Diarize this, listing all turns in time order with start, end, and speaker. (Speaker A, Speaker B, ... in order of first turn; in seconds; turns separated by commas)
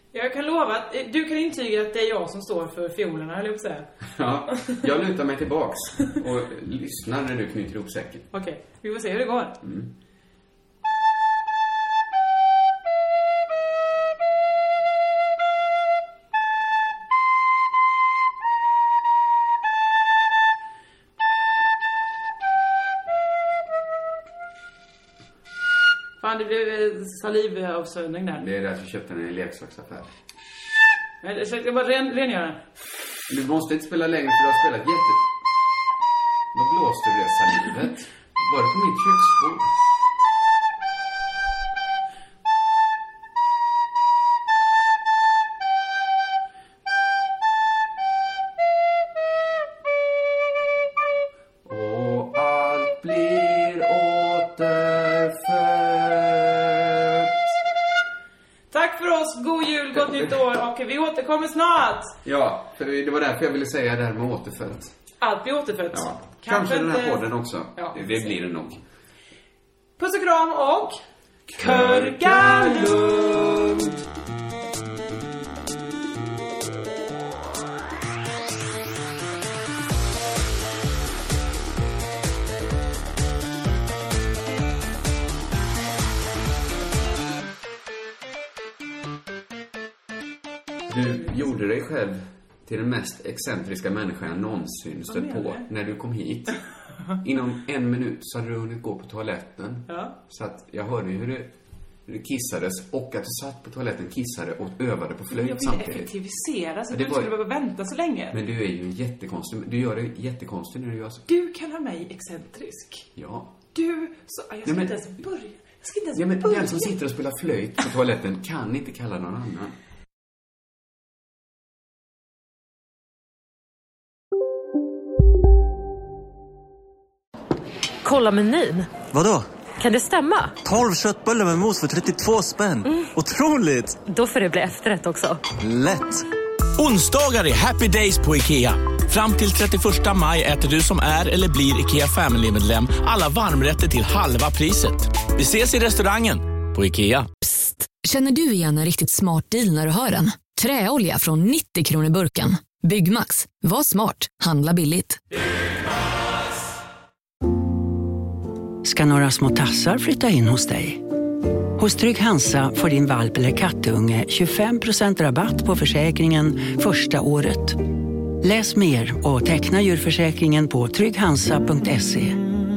Speaker A: 0.1-3.9, Speaker B: 4.0-8.3, Speaker A: 4.6-4.8, Speaker A: 8.3-9.6, Speaker B: 9.6-9.9, Speaker A: 26.2-28.4, Speaker B: 28.3-30.1, Speaker A: 31.2-32.6, Speaker B: 33.3-35.3, Speaker B: 36.5-39.8, Speaker B: 51.6-57.5, Speaker A: 58.7-62.2, Speaker B: 59.9-60.4, Speaker B: 62.2-64.9, Speaker A: 65.2-68.3, Speaker B: 65.9-68.8, Speaker A: 70.0-71.0, Speaker B: 71.5-74.0, Speaker A: 71.6-73.0, Speaker B: 90.9-96.6, Speaker A: 95.1-95.7, Speaker B: 97.2-101.5, Speaker A: 99.9-100.1, Speaker B: 102.1-106.1, Speaker A: 105.3-108.4, Speaker B: 106.9-107.4, Speaker B: 108.3-111.3, Speaker A: 111.3-113.1, Speaker B: 113.2-113.5, Speaker A: 113.7-116.9, Speaker B: 114.7-115.0, Speaker B: 116.2-119.8, Speaker C: 128.0-128.9, Speaker D: 129.1-129.5, Speaker C: 129.8-130.6, Speaker D: 130.6-134.0, Speaker C: 134.0-135.4, Speaker D: 135.6-136.3, Speaker E: 136.8-147.3, Speaker F: 147.4-155.2, Speaker G: 158.8-161.0, Speaker G: 161.8-167.8, Speaker G: 168.4-172.4